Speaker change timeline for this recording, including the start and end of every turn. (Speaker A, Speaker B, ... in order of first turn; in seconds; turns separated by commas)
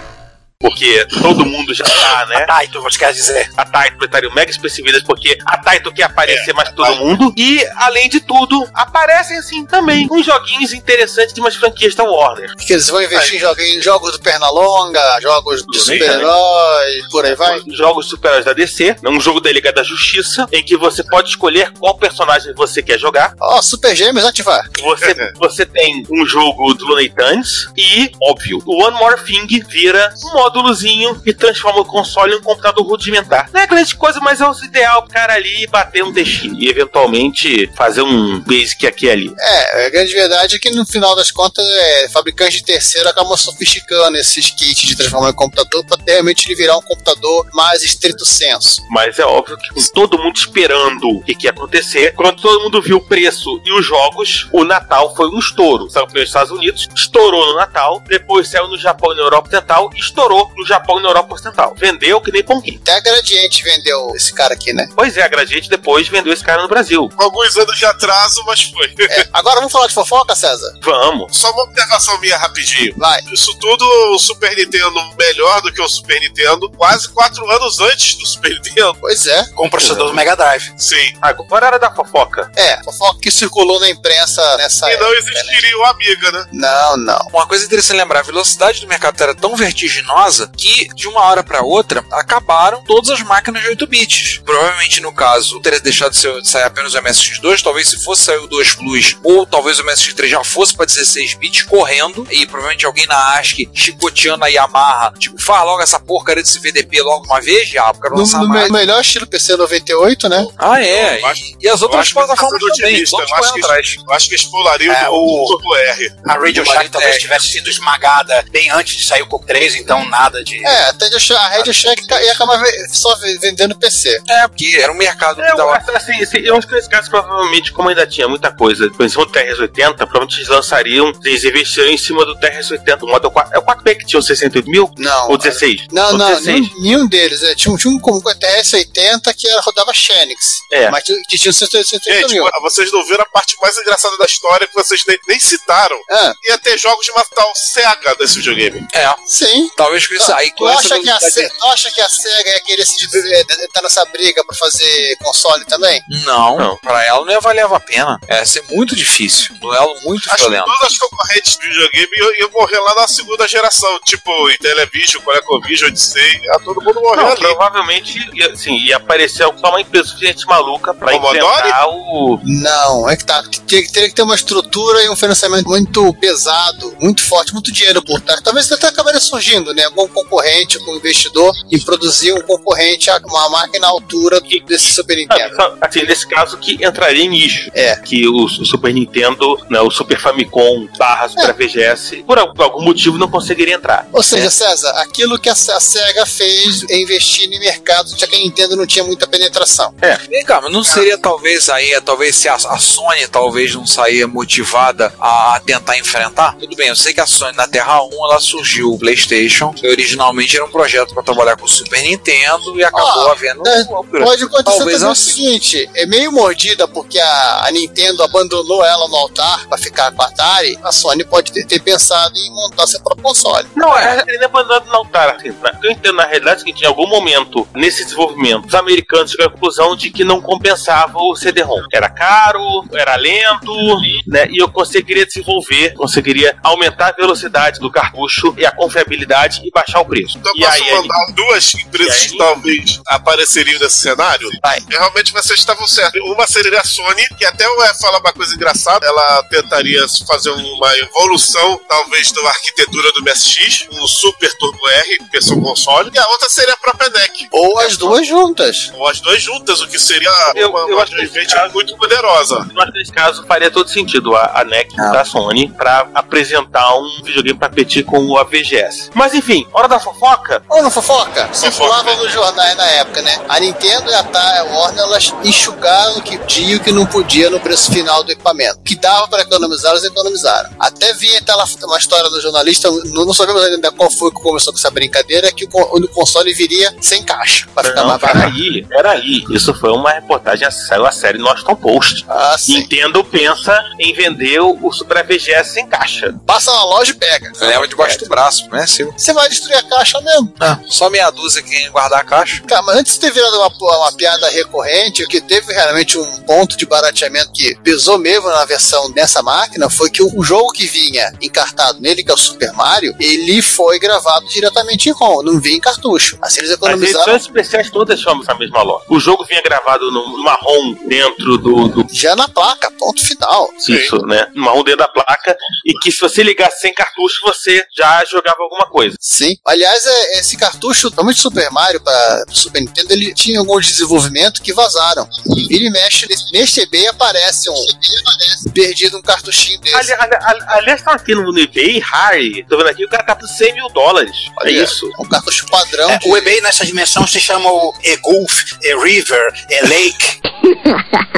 Speaker A: 0.6-2.5, Speaker B: 2.4-3.5, Speaker A: 3.6-12.5, Speaker C: 6.3-7.0, Speaker D: 12.6-17.6, Speaker A: 15.7-16.3, Speaker A: 17.2-23.3, Speaker D: 23.4-24.7, Speaker A: 24.8-39.4, Speaker C: 25.0-25.3, Speaker D: 39.4-48.8, Speaker A: 48.9-62.8, Speaker D: 62.8-64.9, Speaker A: 65.0-67.1, Speaker C: 67.2-69.1, Speaker D: 69.1-70.7, Speaker A: 70.8-71.3, Speaker C: 71.3-79.0, Speaker D: 73.0-73.2, Speaker D: 79.0-79.5, Speaker B: 79.6-80.7, Speaker A: 79.8-80.1, Speaker C: 80.8-81.2, Speaker A: 81.2-82.5, Speaker D: 82.6-85.7, Speaker C: 84.8-86.5, Speaker D: 86.5-87.3, Speaker E: 87.3-108.7, Speaker D: 108.1-110.5, Speaker C: 110.4-116.2, Speaker E: 110.6-114.0, Speaker B: 114.9-115.6, Speaker B: 116.2-120.8, Speaker E: 116.5-117.5, Speaker D: 120.6-124.2, Speaker E: 124.3-125.8, Speaker A: 125.4-136.7, Speaker D: 135.0-142.5, Speaker A: 140.7-141.0, Speaker C: 142.1-148.9, Speaker D: 146.1-146.4, Speaker E: 148.9-149.2, Speaker D: 149.3-156.1, Speaker E: 149.8-151.6, Speaker E: 156.1-161.0, Speaker C: 160.3-167.6, Speaker A: 167.1-172.4, Speaker C: 171.1-171.8, Speaker D: 172.4-185.6, Speaker A: 184.5-194.5, Speaker D: 187.7-188.0, Speaker D: 194.1-199.9, Speaker E: 200.3-215.4, Speaker D: 212.9-223.7, Speaker A: 223.8-241.2, Speaker C: 240.4-258.2, Speaker A: 242.0-242.5, Speaker D: 257.5-258.9, Speaker C: 258.9-262.7, Speaker A: 260.5-261.7, Speaker A: 262.7-270.6, Speaker D: 270.7-288.5, Speaker C: 271.6-272.2, Speaker A: 287.8-296.4, Speaker D: 292.3-292.9, Speaker D: 296.5-298.2, Speaker E: 297.6-299.2, Speaker D: 299.2-300.5, Speaker E: 300.6-302.6, Speaker D: 302.7-317.4, Speaker A: 316.8-322.1, Speaker D: 322.1-323.8, Speaker A: 323.8-329.2, Speaker D: 329.2-340.1, Speaker A: 339.9-345.1, Speaker D: 344.6-346.5, Speaker B: 346.1-350.4